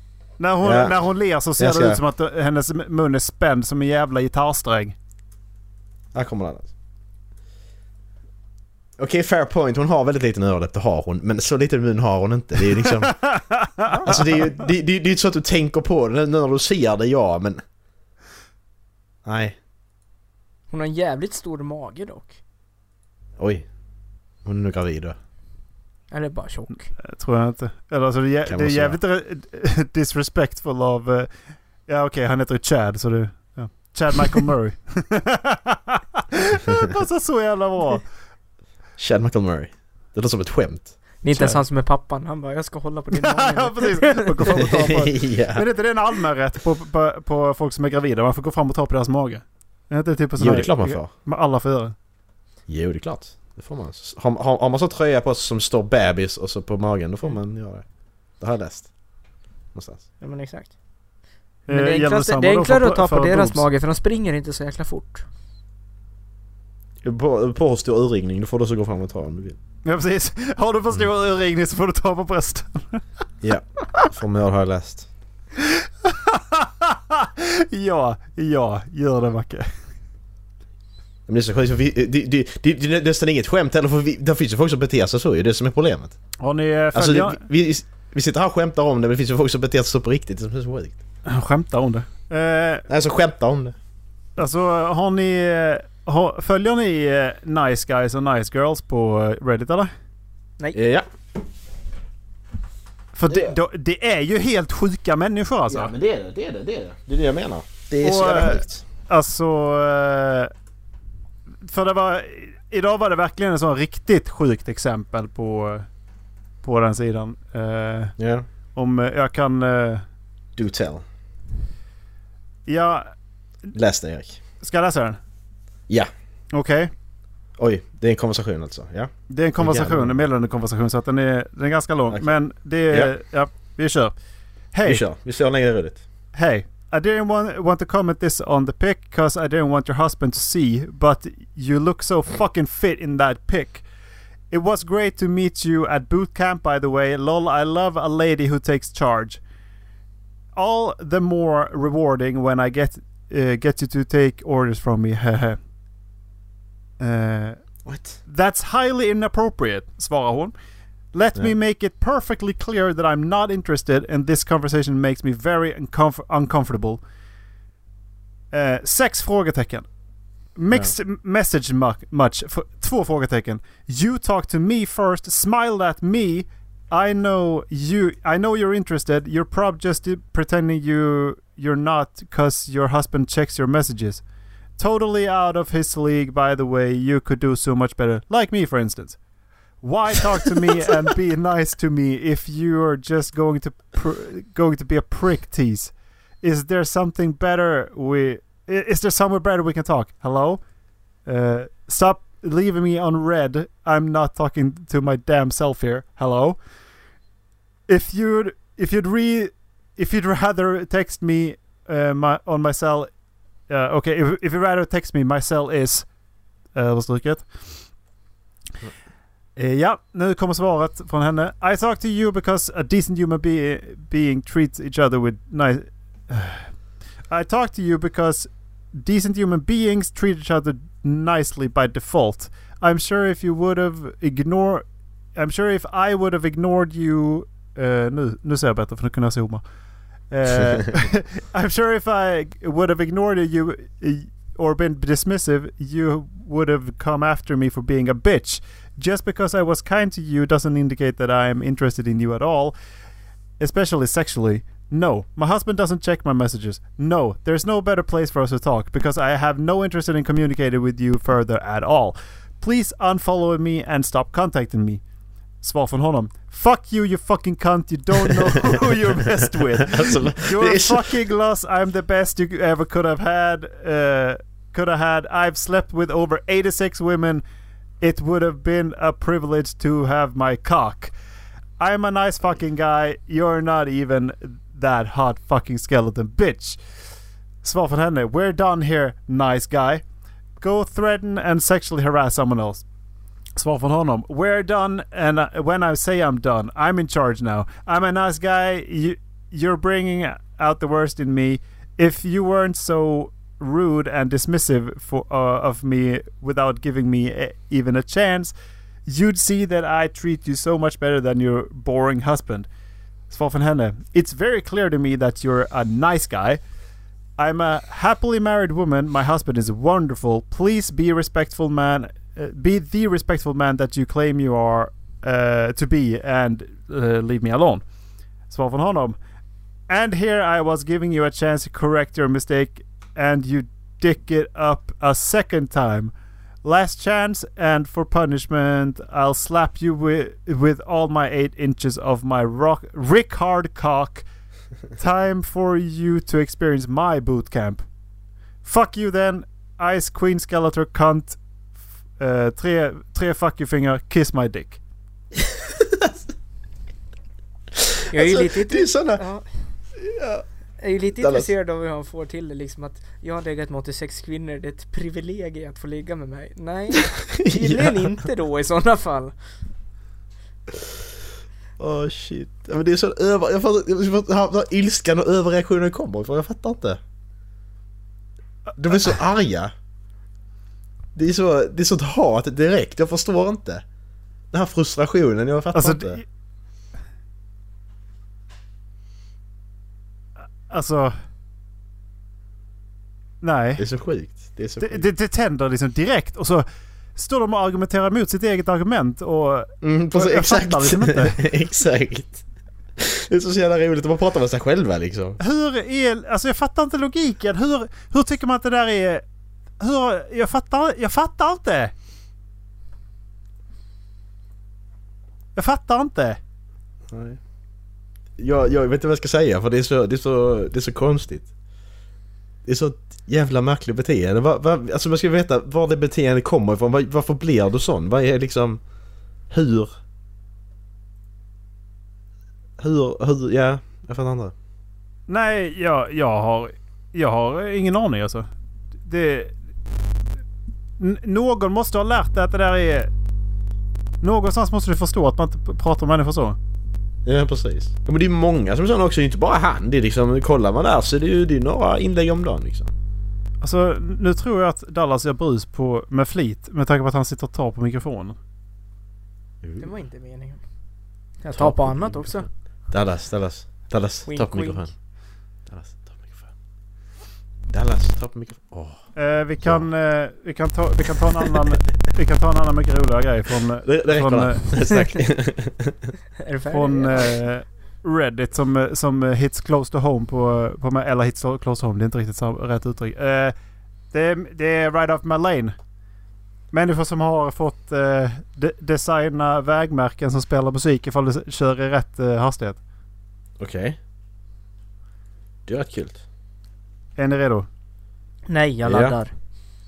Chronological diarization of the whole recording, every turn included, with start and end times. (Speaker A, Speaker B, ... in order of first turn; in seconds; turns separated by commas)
Speaker A: 0.4-5.0, Speaker B: 0.6-0.9, Speaker B: 1.6-2.0, Speaker B: 6.1-6.7, Speaker B: 9.0-13.3, Speaker A: 13.3-14.0, Speaker C: 13.9-14.1, Speaker B: 14.1-17.6, Speaker B: 19.2-19.6, Speaker C: 20.7-22.4, Speaker B: 23.4-23.7, Speaker B: 24.4-25.2, Speaker C: 26.1-26.9, Speaker A: 27.0-38.0, Speaker B: 28.5-29.0, Speaker B: 39.0-41.5, Speaker C: 41.2-44.8, Speaker A: 43.2-51.9, Speaker B: 44.6-45.6, Speaker B: 50.4-51.1, Speaker B: 52.7-60.1, Speaker C: 60.2-60.8, Speaker A: 61.7-63.7, Speaker C: 61.7-65.2, Speaker B: 67.0-69.6, Speaker A: 69.8-73.0, Speaker B: 73.4-75.1, Speaker A: 76.0-79.7, Speaker B: 81.3-86.3, Speaker A: 86.4-87.4, Speaker B: 86.9-91.0, Speaker A: 91.2-92.8, Speaker B: 92.9-93.7, Speaker A: 94.4-99.9, Speaker B: 100.7-101.0, Speaker A: 103.1-105.9, Speaker B: 103.3-103.5, Speaker B: 105.7-108.8, Speaker A: 108.0-110.5, Speaker A: 111.6-115.9, Speaker A: 116.6-120.0, Speaker B: 118.2-118.5, Speaker B: 120.5-121.0, Speaker A: 122.7-123.7, Speaker B: 123.7-124.4, Speaker A: 124.6-125.2, Speaker A: 126.5-126.9, Speaker B: 127.6-130.2, Speaker A: 129.3-134.1, Speaker B: 132.1-133.1, Speaker A: 134.7-135.0, Speaker B: 134.8-136.1, Speaker A: 136.3-143.8, Speaker A: 144.5-149.4, Speaker A: 150.5-155.6, Speaker A: 157.0-157.7, Speaker B: 157.8-158.2, Speaker A: 158.2-160.5, Speaker A: 161.1-167.0, Speaker A: 168.5-184.2, Speaker A: 184.8-189.2, Speaker A: 189.8-206.6, Speaker A: 207.9-216.1, Speaker A: 216.7-218.0, Speaker A: 219.6-252.8, Speaker A: 253.6-265.0, Speaker A: 265.6-277.4, Speaker B: 269.9-271.1, Speaker A: 278.0-281.1, Speaker A: 281.8-286.8, Speaker A: 287.6-290.0, Speaker A: 290.6-292.8, Speaker A: 293.5-312.7, Speaker A: 313.3-316.6, Speaker A: 317.4-327.9, Speaker A: 328.4-329.2, Speaker A: 329.9-344.2, Speaker A: 344.9-347.9, Speaker A: 348.6-351.4, Speaker A: 352.2-354.8, Speaker C: 358.1-359.7, Speaker B: 358.1-359.2, Speaker B: 360.0-360.4, Speaker C: 360.8-369.3, Speaker B: 361.2-361.5, Speaker B: 367.6-367.9, Speaker B: 371.8-377.0, Speaker B: 378.8-379.7, Speaker A: 378.9-379.1, Speaker B: 381.1-383.8, Speaker B: 384.5-386.2, Speaker A: 385.7-386.2, Speaker A: 390.7-391.1, Speaker A: 393.4-393.9, Speaker B: 393.8-395.1, Speaker A: 394.8-401.4, Speaker B: 399.8-402.4, Speaker B: 403.0-405.4, Speaker A: 405.4-409.2, Speaker A: 409.8-411.9, Speaker A: 415.5-416.4, Speaker B: 417.1-417.4, Speaker B: 418.4-421.5, Speaker B: 422.6-428.8, Speaker B: 429.5-429.9, Speaker B: 432.8-434.5, Speaker A: 435.3-439.6, Speaker A: 441.0-443.1, Speaker A: 444.2-446.6, Speaker B: 447.2-452.9, Speaker A: 453.6-458.4, Speaker B: 459.6-459.9, Speaker C: 459.8-460.6, Speaker C: 461.4-462.5, Speaker B: 461.5-465.1, Speaker C: 464.2-464.9, Speaker B: 465.6-466.5, Speaker B: 467.7-469.0, Speaker A: 469.1-474.7, Speaker B: 469.6-469.9, Speaker B: 473.8-476.1, Speaker C: 476.4-477.4, Speaker A: 476.7-483.5, Speaker A: 484.1-485.8, Speaker A: 486.7-492.8, Speaker B: 493.6-494.0, Speaker B: 495.7-496.2, Speaker A: 497.2-497.7, Speaker C: 498.5-499.3, Speaker B: 498.8-499.2